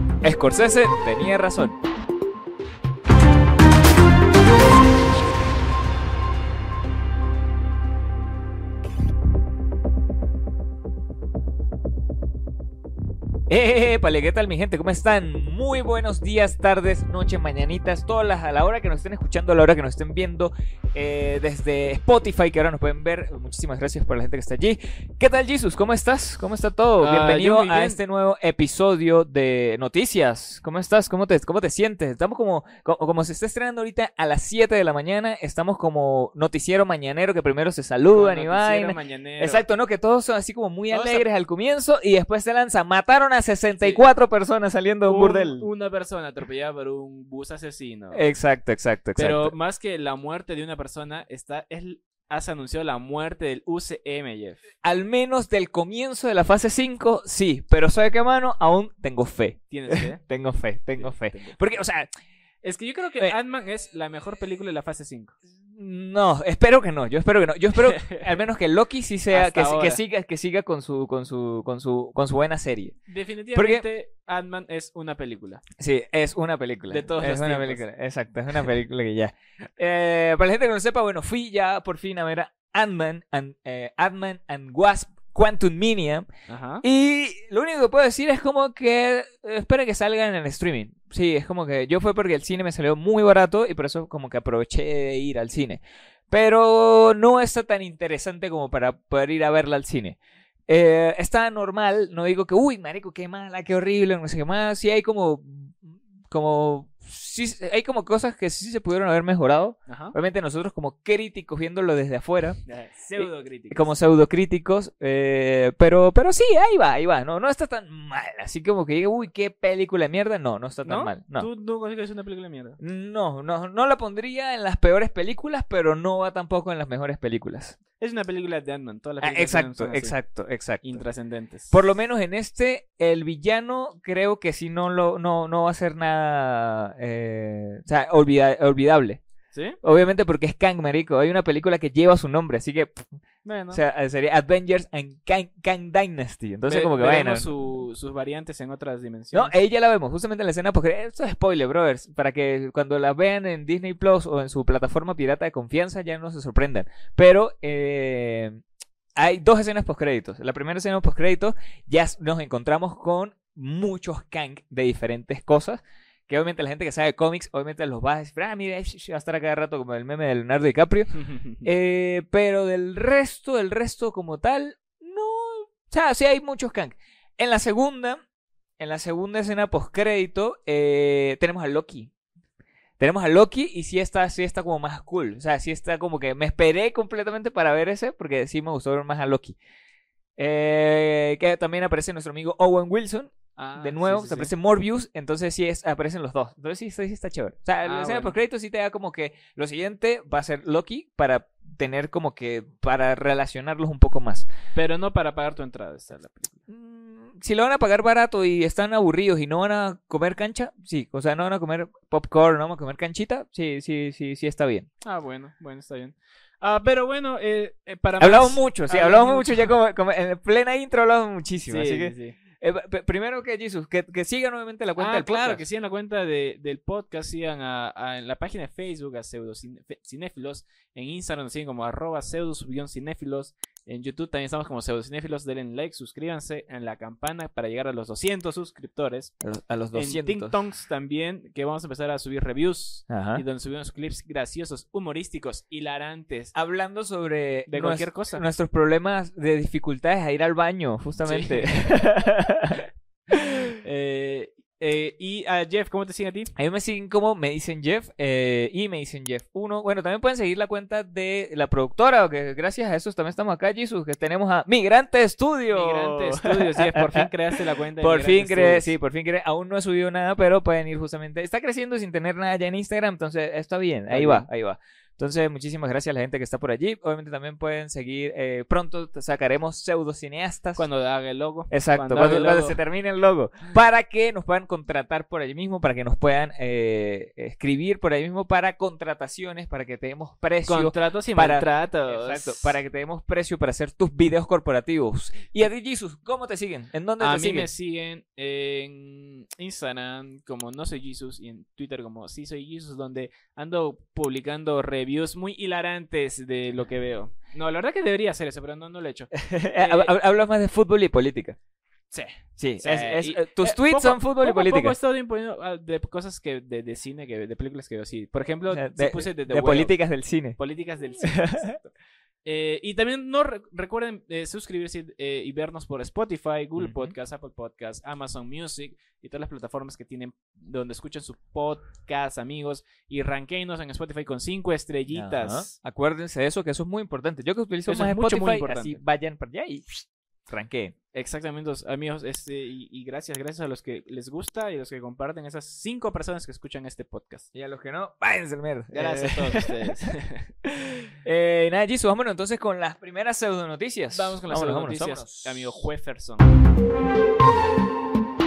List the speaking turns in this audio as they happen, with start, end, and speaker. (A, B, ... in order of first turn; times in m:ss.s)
0:00.2-0:01.8 A
0:13.5-0:45.7 A
0:27.0-0:28.0 B
0:38.1-0:39.6 B
0:40.9-0:41.2 B
0:45.1-0:48.2 B
0:48.1-0:49.5 A
0:49.2-0:54.6 B
0:54.8-1:02.1 A
0:59.7-1:00.2 B
1:01.0-1:01.6 B
1:02.6-1:05.3 B
1:05.7-1:13.0 A
1:08.0-1:08.2 B
1:09.3-1:10.0 B
1:13.1-1:15.6 B
1:13.5-1:13.9 A
1:15.8-1:26.3 A
1:16.9-1:17.8 B
1:26.5-1:26.8 B
1:26.8-1:52.6 A
1:49.9-1:50.2 B
1:52.7-1:53.9 B
1:53.2-2:01.5 A
2:00.8-2:02.8 B
2:02.8-2:07.8 A
2:08.0-2:10.2 B
2:09.2-2:11.0 A
2:10.8-2:11.7 B
2:11.7-2:19.2 A
2:19.5-2:19.8 B
2:19.8-2:23.1 A
2:23.4-2:23.8 B
2:23.7-2:27.5 A
2:26.7-2:29.5 B
2:29.3-2:38.6 A
2:39.2-2:51.1 A
2:51.1-2:51.7 B
2:51.6-2:58.2 A
2:58.8-3:02.1 A
3:03.0-3:09.6 A
3:10.4-3:24.5 A
3:13.6-3:14.5 B
3:17.8-3:18.4 B
3:24.8-3:26.6 B
3:26.7-3:34.9 A
3:35.0-3:39.7 B
3:38.2-3:45.6 A
3:41.7-3:42.4 B
3:45.0-3:59.3 B
3:59.4-4:00.6 A
3:59.9-4:06.5 B
4:03.1-4:03.4 A
4:06.5-4:13.7 A
4:07.7-4:08.4 B
4:11.2-4:11.9 B
4:13.8-4:16.5 B
4:16.6-4:27.3 A
4:25.7-4:28.9 B
4:28.0-4:40.8 A
4:34.1-4:34.5 B
4:40.8-4:42.8 B
4:41.7-4:57.7 A
4:50.6-4:52.8 B
4:57.2-5:10.1 B
5:09.3-5:11.6 A
5:12.1-5:20.0 B
5:12.6-5:15.0 A
5:18.7-5:20.6 A
5:20.6-5:21.9 B
5:21.2-5:21.8 A
5:22.4-5:35.8 B
5:26.8-5:27.1 A
5:35.1-5:41.0 A
5:37.9-5:39.0 B
5:41.1-5:47.5 B
5:47.5-5:50.1 A
5:48.9-5:50.5 B
5:50.7-5:55.7 A
5:54.1-5:56.5 B